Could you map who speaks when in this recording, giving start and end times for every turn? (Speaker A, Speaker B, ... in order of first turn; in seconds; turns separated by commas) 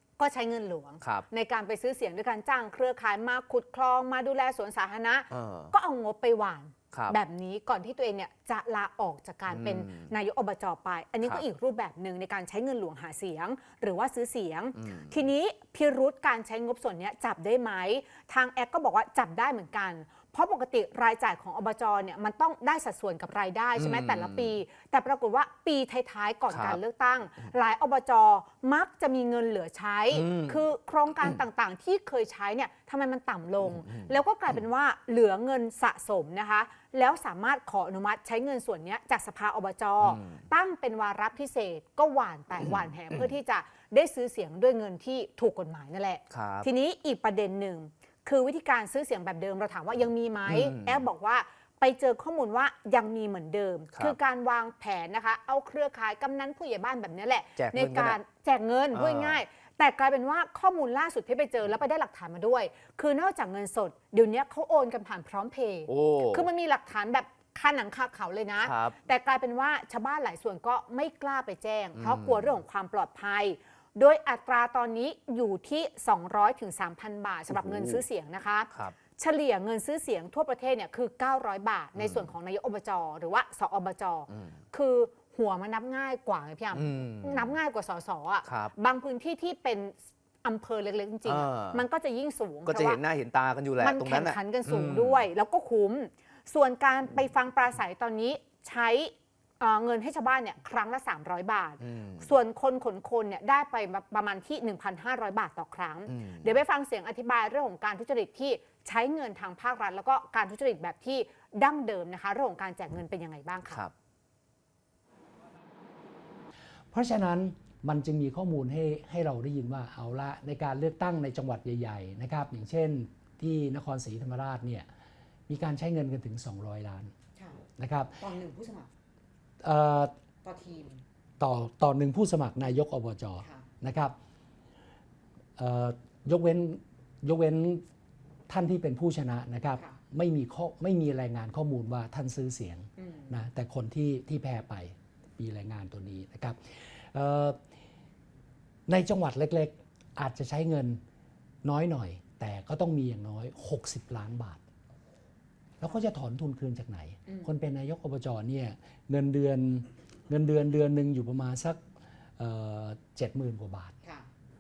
Speaker A: 0.2-93.0, Speaker B: 5.3-5.7, Speaker B: 9.5-10.1, Speaker B: 14.8-15.2, Speaker B: 23.8-24.6, Speaker B: 26.5-26.8, Speaker B: 30.1-30.6, Speaker B: 33.7-34.1, Speaker B: 40.0-40.4, Speaker B: 42.7-43.2, Speaker B: 46.3-46.7, Speaker B: 50.5-51.0, Speaker B: 57.6-58.2, Speaker B: 58.9-59.4, Speaker B: 65.9-66.5, Speaker B: 68.6-69.0, Speaker B: 72.0-72.6, Speaker B: 77.5-78.0, Speaker B: 78.7-79.0, Speaker B: 82.0-82.3, Speaker B: 84.3-84.6, Speaker B: 86.7-87.5, Speaker B: 88.5-88.7, Speaker B: 91.3-91.8, Speaker B: 92.7-95.3, Speaker A: 93.8-113.8, Speaker B: 101.8-102.3, Speaker B: 106.1-106.6, Speaker B: 113.7-113.9, Speaker C: 116.9-124.9, Speaker C: 125.5-127.1, Speaker C: 127.8-128.3, Speaker A: 128.2-128.9, Speaker C: 129.6-130.1, Speaker A: 130.5-131.0, Speaker C: 131.4-134.2, Speaker C: 135.6-137.8, Speaker C: 138.5-147.6, Speaker C: 148.9-151.0, Speaker C: 151.6-154.6, Speaker C: 155.8-161.8, Speaker C: 162.4-163.9